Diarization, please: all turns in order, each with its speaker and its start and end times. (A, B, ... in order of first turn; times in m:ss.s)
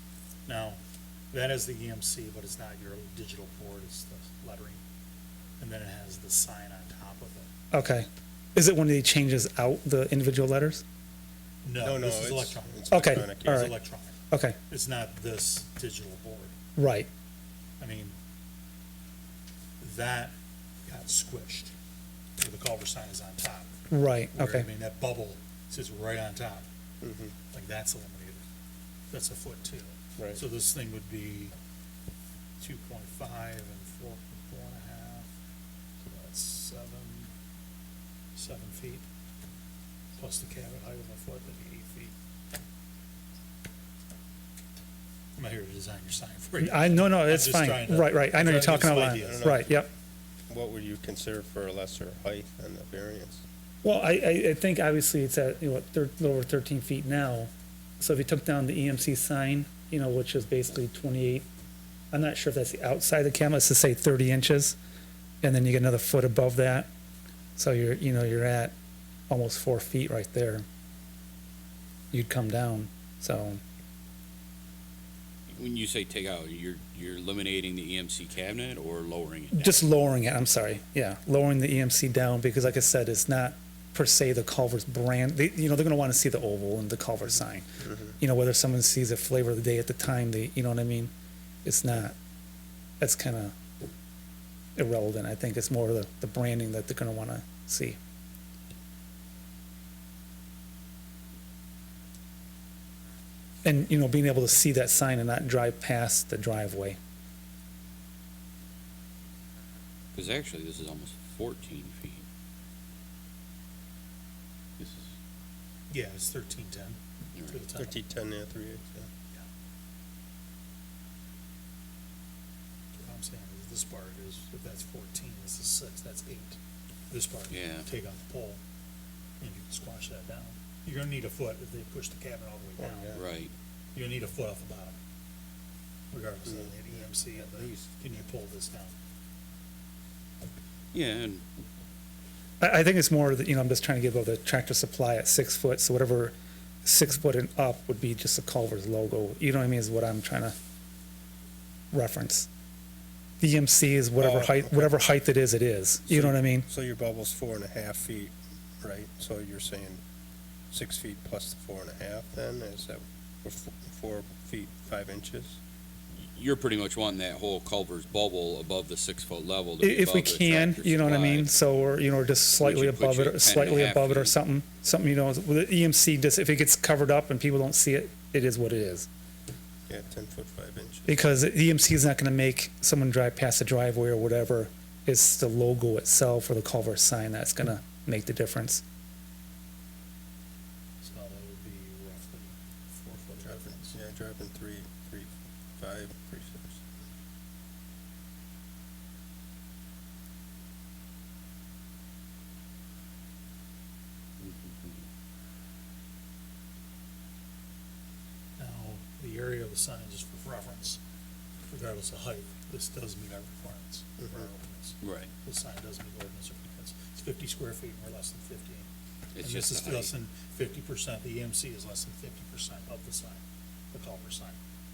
0:00.4-0:00.8 A
0:01.3-0:04.8 A
0:05.6-0:07.5 A
0:07.7-0:10.8 B
0:11.6-0:14.2 A
0:11.8-0:13.7 C
0:12.9-0:13.7 B
0:14.3-0:14.6 B
0:14.7-0:16.5 A
0:16.8-0:17.1 B
0:17.8-0:18.2 A
0:19.8-0:20.3 A
0:20.8-0:21.7 A
0:22.4-0:23.7 A
0:23.9-0:24.7 B
0:24.3-0:26.6 A
0:27.0-0:27.3 C
0:27.5-0:28.4 A
0:29.1-0:31.5 A
0:32.6-0:35.3 A
0:36.0-0:37.3 A
0:38.3-0:39.0 A
0:40.2-0:42.1 A
0:45.4-0:49.6 A
0:46.6-0:49.9 B
0:48.8-0:49.8 C
0:50.5-0:53.4 C
0:53.8-1:01.4 B
1:02.1-1:04.8 B
1:05.4-1:06.9 B
1:07.6-1:08.7 B
1:09.3-1:10.6 B
1:12.1-1:13.6 B
1:15.5-1:19.6 D
1:19.5-1:27.7 B
1:28.2-1:31.1 B
1:31.6-1:32.2 B
1:33.0-1:33.6 B
1:34.8-1:38.0 B
1:43.6-1:47.0 B
1:50.1-1:52.2 D
1:54.8-1:55.1 D
1:55.9-1:57.9 A
1:57.8-1:59.1 C
2:03.0-2:06.6 A
2:07.1-2:08.6 A
2:07.5-2:07.8 D
2:09.4-2:13.2 A
2:12.8-2:13.2 B
2:13.1-2:13.5 D
2:13.9-2:15.0 A
2:16.1-2:18.9 A
2:20.9-2:21.4 D
2:22.6-2:26.3 B
2:26.8-2:30.5 B
2:31.9-2:32.5 B
2:33.4-2:36.6 B
2:34.2-2:35.0 C
2:36.1-2:40.0 C
2:40.7-2:45.6 C
2:46.1-2:51.5 D
2:49.8-2:59.1 B
2:52.6-2:54.3 D
2:59.9-3:01.1 C
3:01.1-3:08.8 B
3:11.0-3:14.0 A
3:13.4-3:16.9 C
3:24.4-3:25.0 D
3:28.6-3:31.0 A
3:31.7-3:38.9 A
3:35.0-3:35.3 D
3:39.3-3:40.1 D
3:39.4-3:44.6 A